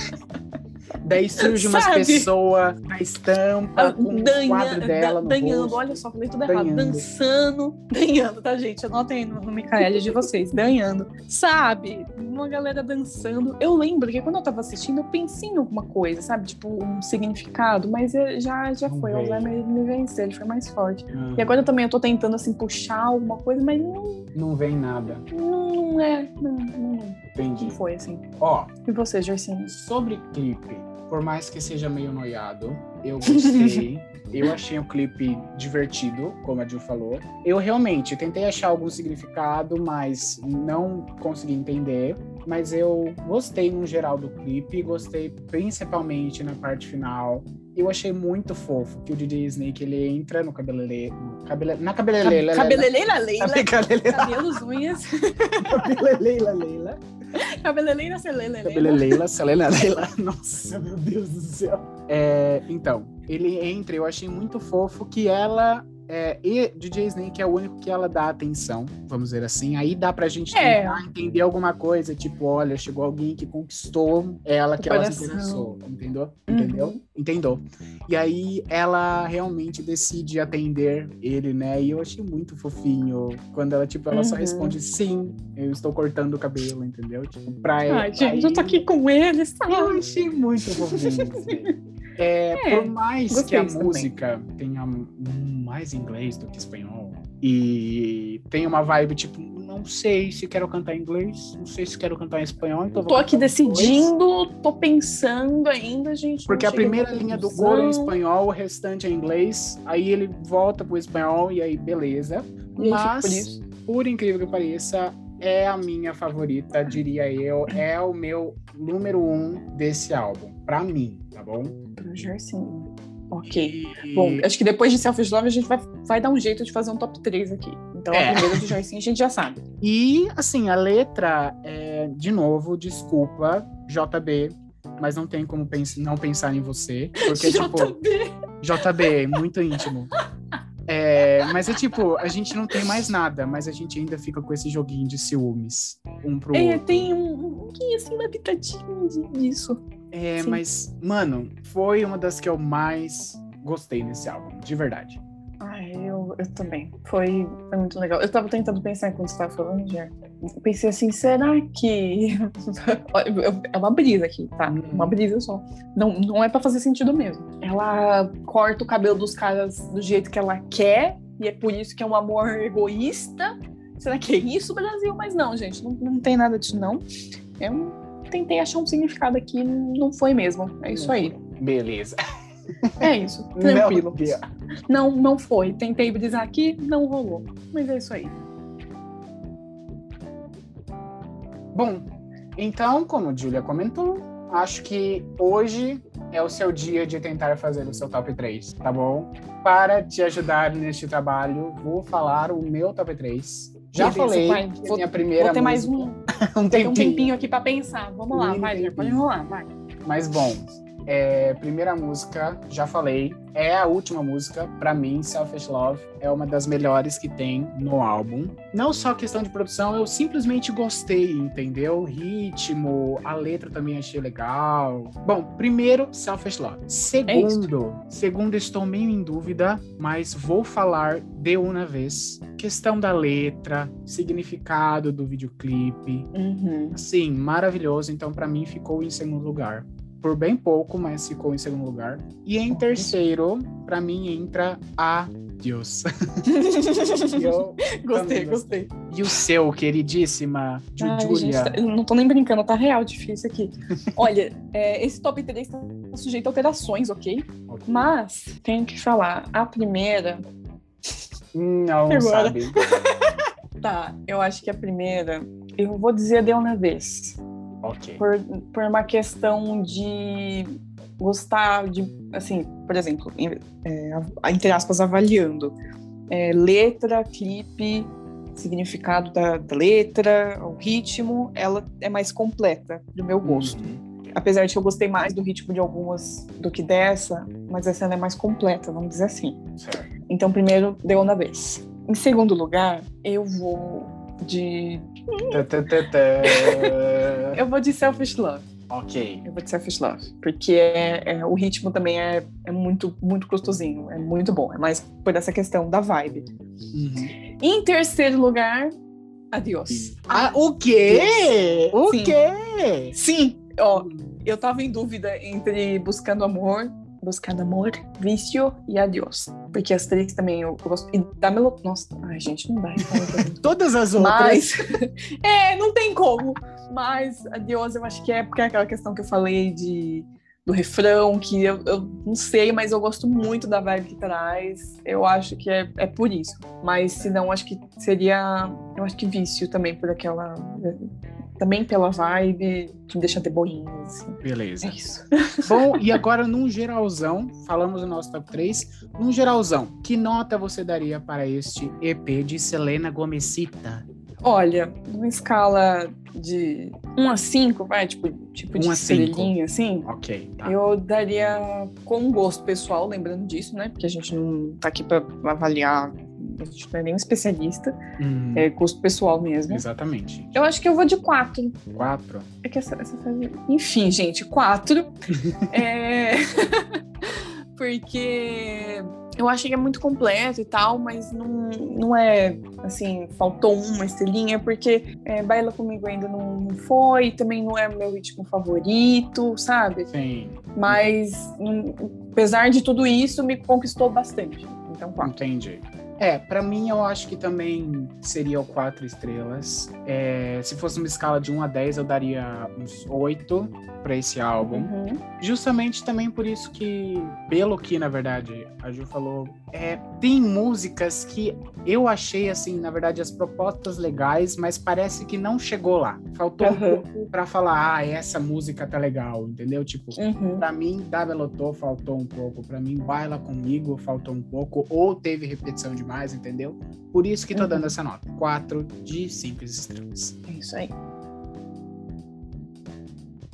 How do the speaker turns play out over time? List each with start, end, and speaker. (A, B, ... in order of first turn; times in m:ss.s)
0:01.0-0:05.8 A
0:01.4-0:02.3 B
0:03.8-0:24.3 B
0:06.5-0:07.0 A
0:09.8-0:10.2 A
0:18.8-0:19.6 A
0:21.1-0:21.6 A
0:24.4-0:25.2 A
0:25.3-0:28.2 B
0:27.4-0:27.8 A
0:28.4-0:28.7 A
0:28.8-0:29.8 B
0:29.7-0:52.9 A
0:33.3-0:33.9 B
0:52.2-0:55.9 B
0:53.4-0:54.6 A
0:55.6-0:57.0 A
0:57.4-0:59.2 B
0:58.7-1:28.8 A
1:10.5-1:11.0 B
1:14.8-1:15.7 B
1:16.5-1:17.0 B
1:24.1-1:24.8 B
1:27.9-1:30.0 B
1:29.7-1:44.1 A
1:30.9-1:31.7 B
1:32.6-1:34.1 B
1:43.1-1:48.1 B
1:46.5-2:01.8 A
1:52.8-1:53.6 B
2:02.0-2:09.6 B
2:03.4-2:04.5 A
2:08.1-2:08.7 A
2:09.8-2:18.0 A
2:17.2-2:18.3 B
2:18.6-2:20.1 A
2:19.1-2:19.4 B
2:20.9-2:27.1 A
2:21.5-2:21.9 B
2:26.5-2:29.8 B
2:30.1-2:35.2 A
2:35.6-2:57.0 B
2:44.7-2:45.2 A
2:57.6-3:01.4 B
3:00.9-3:02.2 A
3:02.8-3:04.4 A
3:03.0-3:04.3 B
3:04.9-3:08.4 B
3:11.7-3:12.1 A
3:12.6-3:27.3 A
3:24.0-3:26.2 B
3:26.7-3:29.7 B
3:28.3-3:29.3 A
3:30.0-3:56.3 A
3:47.3-3:47.7 B
3:56.3-3:57.0 B
3:57.0-4:06.1 A
4:02.7-4:03.2 B
4:06.5-4:08.9 B
4:07.3-4:11.8 A
4:11.0-4:20.4 B
4:17.7-4:18.1 A
4:21.5-4:22.7 A
4:22.1-4:27.4 B
4:27.8-4:28.2 A
4:28.2-4:35.8 B
4:36.3-4:43.8 B
4:43.4-4:44.0 A
4:44.3-4:49.6 B
4:49.8-4:50.1 A
4:50.3-4:55.6 B
4:55.5-4:57.6 A
4:56.4-4:56.9 B
4:57.5-4:58.7 B
4:58.9-4:59.4 A
4:59.4-5:06.5 B
5:06.9-5:07.4 A
5:07.6-5:08.9 B
5:09.5-5:10.5 B
5:09.9-5:13.2 A
5:11.1-5:11.5 B
5:12.1-5:12.4 B
5:13.1-5:23.6 B
5:14.0-5:14.4 A
5:23.0-5:24.7 A
5:24.2-5:46.0 B
5:44.4-5:45.0 A
5:45.7-5:54.1 A
5:54.4-6:00.1 B
5:58.8-5:59.5 A
6:00.1-6:00.8 A
6:00.6-6:08.0 B
6:08.2-6:08.7 A
6:08.6-6:09.8 B
6:09.7-6:10.6 A
6:10.5-6:11.8 B
6:11.9-6:12.5 A
6:12.6-6:15.1 B
6:15.3-6:15.7 A
6:15.7-6:30.1 B
6:30.1-6:31.0 A
6:30.8-6:35.4 B
6:35.2-7:10.4 A
6:44.6-6:45.2 B
6:56.6-6:57.0 B
7:00.2-7:00.7 B
7:07.5-7:07.9 B
7:10.5-7:10.9 B